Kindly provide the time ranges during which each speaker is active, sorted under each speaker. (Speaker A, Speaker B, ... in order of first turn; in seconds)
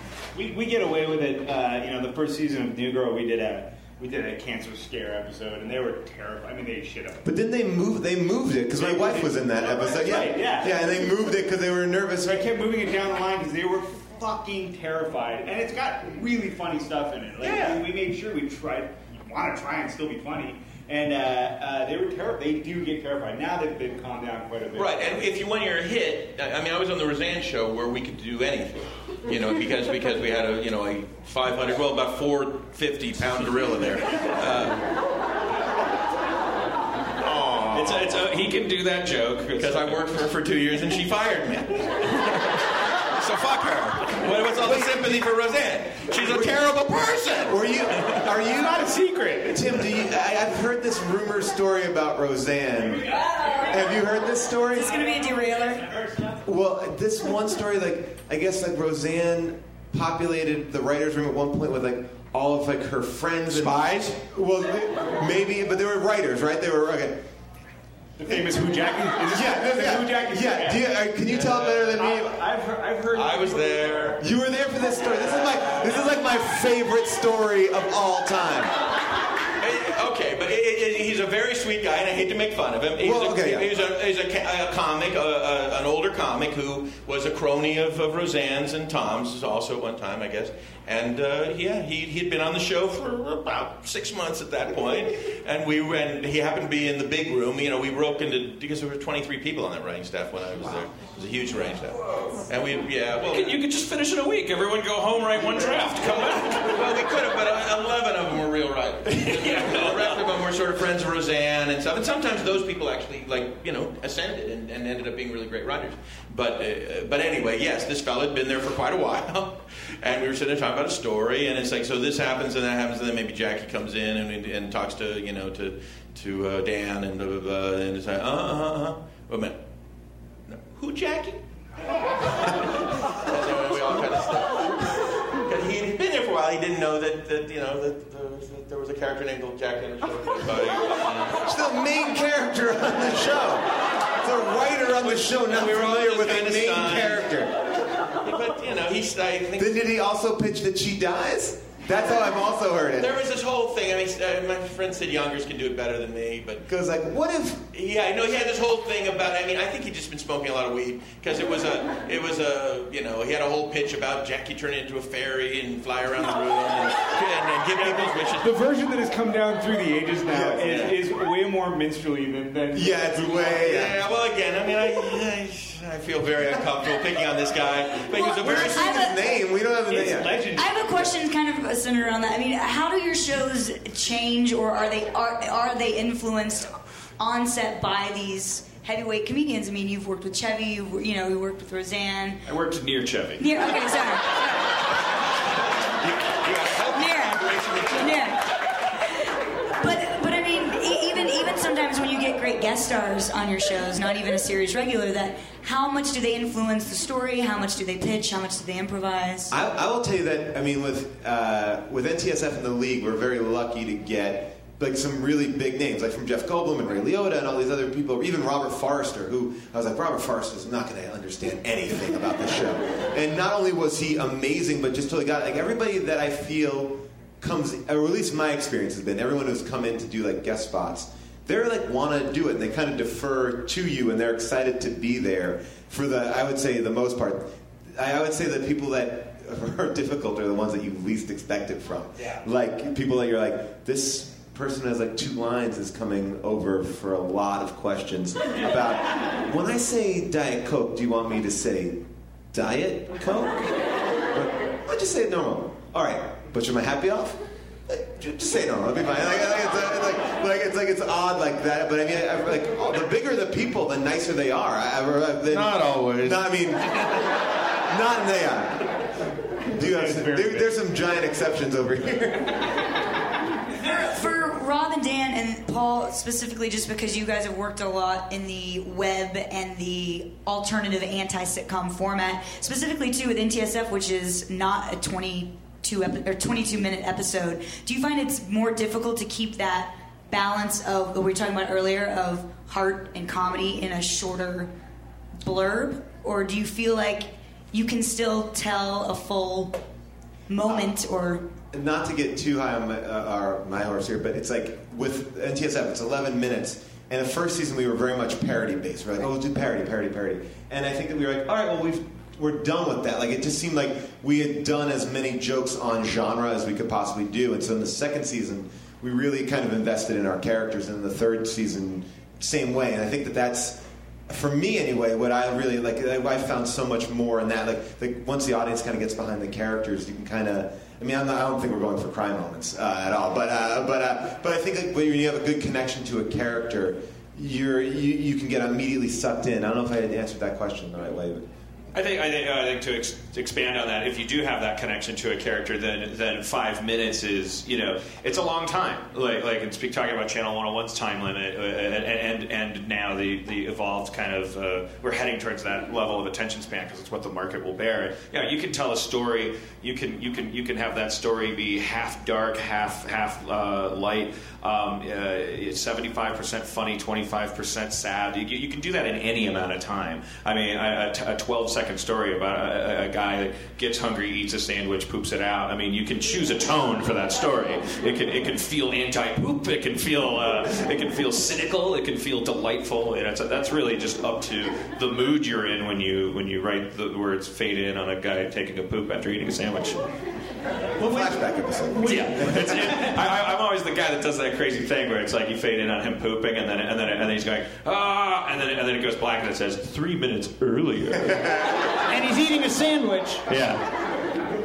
Speaker A: 0.3-7.2, 8.8-11.1, 12.2-25.1, 48.5-49.8, 68.2-70.9, 71.4-74.2, 167.7-173.4, 179.9-181.1, 269.8-270.7
Speaker B: 7.2-12.5, 44.6-45.2, 46.1-46.5, 47.5-48.8, 49.5-53.1, 53.6-55.0, 56.4-67.2, 69.3-72.4, 74.2-78.8, 83.0-83.7, 141.4-147.5, 149.6-153.2, 156.7-157.7, 170.3-170.8, 172.7-174.0, 178.2-180.3, 209.5-267.2, 267.8-269.1, 269.7-272.7, 300.6-300.9, 301.7-341.5, 391.0-392.9
Speaker C: 17.4-17.8, 24.7-34.8, 37.2-38.2, 39.5-42.6, 43.1-48.1, 63.5-64.2, 71.3-71.7, 73.1-74.2, 79.6-103.6, 106.2-129.6, 130.5-131.4, 132.2-141.5, 145.0-147.3, 148.2-149.8, 153.0-156.6, 157.7-168.5, 170.6-171.0, 173.6-178.8, 196.0-198.1, 265.5-266.4
Speaker D: 37.7-40.0, 103.2-106.8, 109.2-110.2, 192.4-193.4, 341.9-390.0, 392.0-401.6, 403.5-403.8
Speaker E: 53.1-53.7, 54.8-56.4, 391.0-393.1, 402.1-403.4
Speaker F: 54.8-55.9, 178.5-179.2, 180.6-192.4, 193.4-194.6, 196.9-198.4, 199.1-209.5, 273.8-294.7, 295.4-299.8, 300.5-301.4